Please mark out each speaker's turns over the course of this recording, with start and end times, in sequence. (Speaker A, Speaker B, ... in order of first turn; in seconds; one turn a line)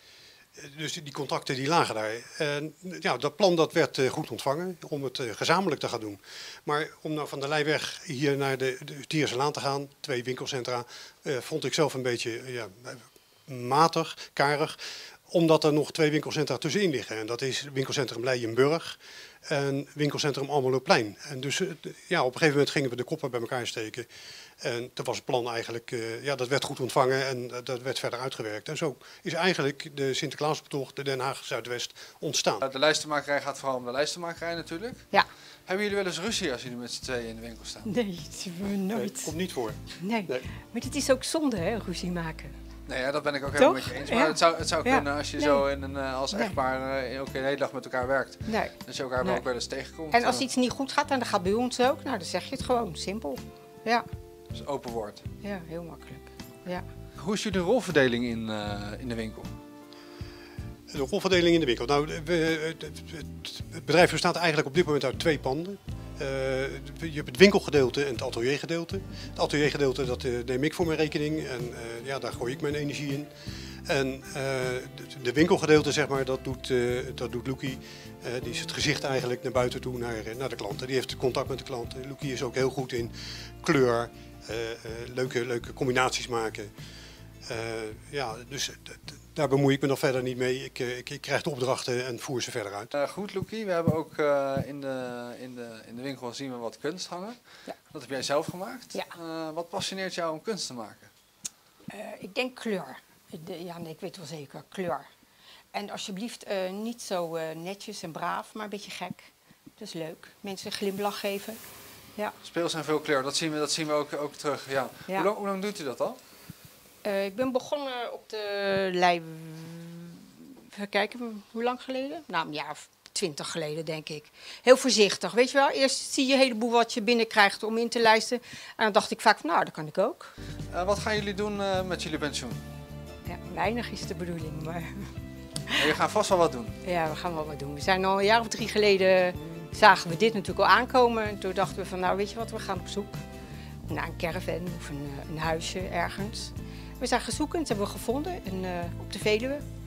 Speaker A: 0.6-24.1
Speaker A: 24.6-32.6
Speaker B: 32.6-35.0
Speaker B: 35.7-37.9
Speaker C: 37.8-39.3
Speaker A: 38.9-40.4
Speaker C: 40.0-42.5
Speaker B: 42.9-50.5
Speaker C: 43.5-45.6
Speaker C: 48.5-49.4
Speaker C: 50.1-54.0
Speaker B: 54.5-55.2
Speaker C: 55.4-56.8
Speaker B: 57.2-59.5
Speaker A: 60.9-73.3
Speaker A: 73.9-86.7
Speaker A: 87.5-92.9
Speaker B: 92.9-97.4
Speaker B: 97.9-101.1
Speaker C: 101.9-105.0
Speaker C: 105.7-111.6
Speaker B: 112.4-116.2
Speaker C: 117.0-130.3
Speaker B: 130.7-132.6
Speaker C: 133.2-135.1
Speaker B: 135.8-136.7
Speaker C: 136.8-143.2
Speaker C: 143.9-149.6